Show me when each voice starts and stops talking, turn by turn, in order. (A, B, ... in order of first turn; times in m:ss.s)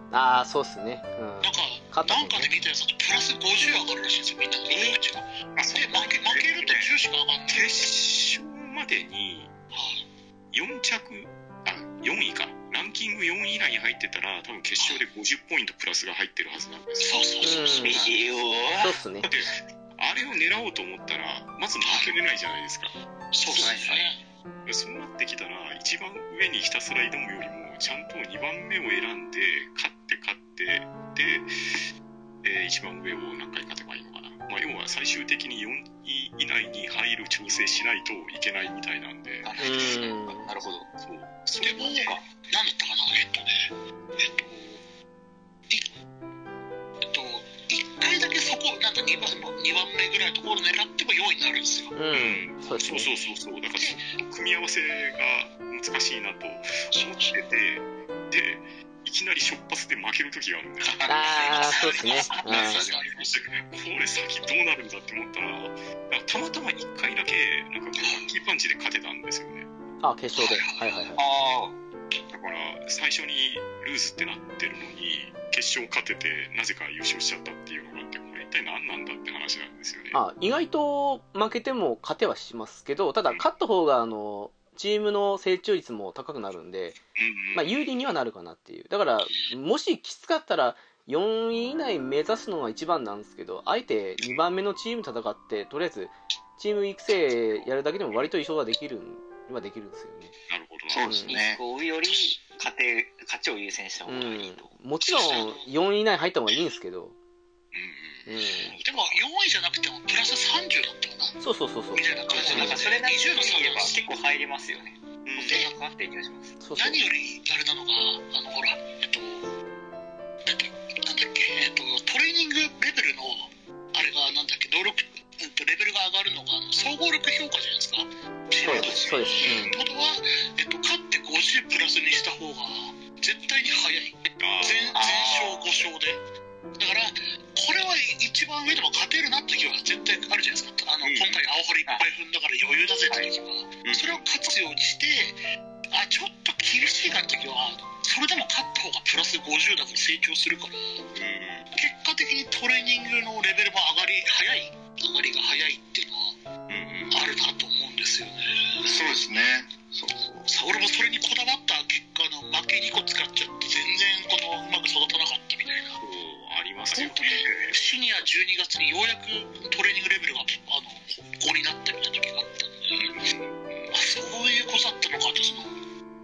0:00.1-0:02.5 A
0:01.4-0:07.9 B
0:04.7-0:05.0 C
0:05.6-0:06.9 D
0:07.5-0:09.5 D
0:09.7-0:10.0 B
0:10.5-0:17.7 D
0:14.8-0:15.0 B
0:17.0-0:18.1 B
0:17.4-0:18.0 A
0:17.8-0:19.0 C
0:18.8-0:19.3 A
0:19.2-0:22.9 D
0:21.8-0:22.2 B
0:23.3-0:24.2 B
0:23.5-0:24.1 E
0:24.7-0:31.8 D
0:32.4-0:39.8 D
0:39.4-0:40.9 C
0:39.6-0:40.5 A
0:41.0-0:42.2 D
0:41.6-0:44.8 B
0:41.9-0:42.2 C
0:47.1-0:52.0 B
0:52.0-0:53.1 A
0:52.1-1:09.7 D
0:53.8-0:54.1 B
0:56.9-0:57.4 B
1:01.0-1:03.4 B
1:01.1-1:02.9 A
1:08.0-1:08.3 B
1:10.0-1:11.2 A
1:10.4-1:11.1 B
1:11.2-1:11.8 C
1:12.3-1:20.2 D
1:20.1-1:27.0 A
1:27.2-1:28.1 D
1:27.5-1:40.3 A
1:29.3-1:29.6 D
1:37.4-1:38.3 D
1:40.5-1:41.2 D
1:40.9-1:41.6 E
1:41.0-1:41.4 A
1:41.2-1:44.7 C
1:44.1-1:47.2 A
1:45.0-1:45.7 B
1:47.7-1:49.2 D
1:48.3-1:48.8 A
1:48.8-1:51.4 B
1:51.4-1:52.9 A
1:51.9-1:54.0 B
1:52.3-1:56.6 C
1:55.2-1:55.7 D
1:55.4-1:55.7 B
1:56.6-1:57.0 A
1:56.8-1:59.5 B
2:00.4-2:16.2 B
2:08.6-2:09.8 A
2:14.4-2:15.1 D
2:14.9-2:15.8 C
2:16.8-2:25.4 B
2:21.0-2:21.4 D
2:23.8-2:24.3 D
2:25.9-2:31.0 B
2:31.1-2:31.7 D
2:31.7-2:36.4 B
2:36.7-2:37.3 D
2:37.1-2:39.0 B
2:38.8-2:40.5 E
2:40.5-2:46.0 B
2:46.0-2:47.8 D
2:46.9-2:53.2 B
2:53.0-2:53.9 D
2:53.9-2:55.8 B